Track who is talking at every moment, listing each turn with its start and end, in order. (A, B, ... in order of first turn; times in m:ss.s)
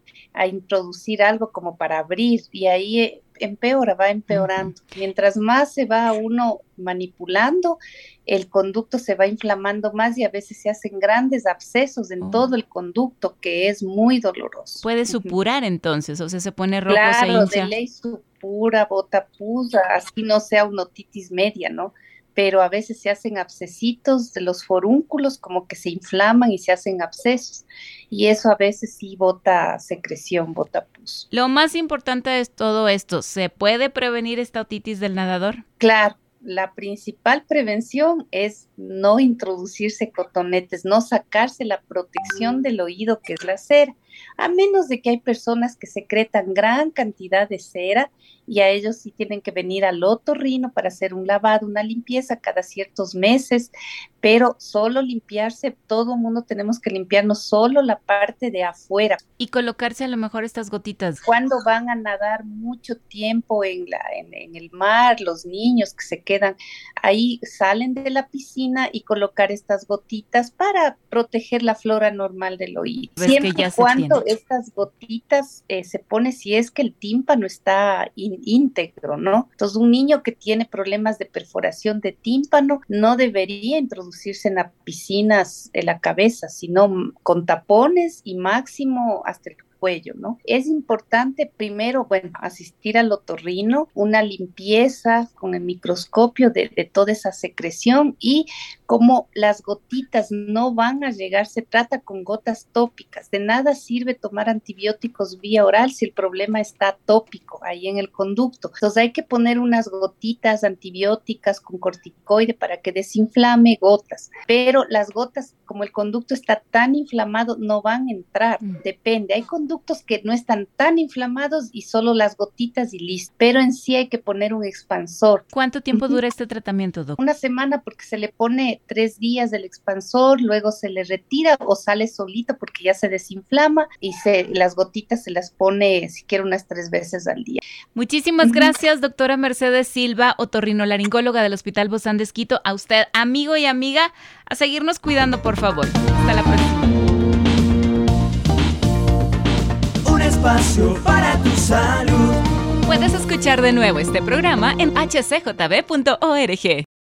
0:00.3-0:15.3 A
0:04.3-0:04.8 B
0:12.2-0:12.5 B
0:14.8-0:17.7 B
0:16.9-0:31.2 A
0:31.3-0:35.6 B
0:35.8-0:59.2 A
0:59.4-1:01.2 B
1:01.2-2:06.2 A
1:13.2-1:14.2 B
2:05.5-2:07.2 B
2:07.2-2:17.6 A
2:17.9-2:26.9 B
2:18.4-2:18.7 A
2:30.0-2:32.4 C
2:32.8-2:36.8 B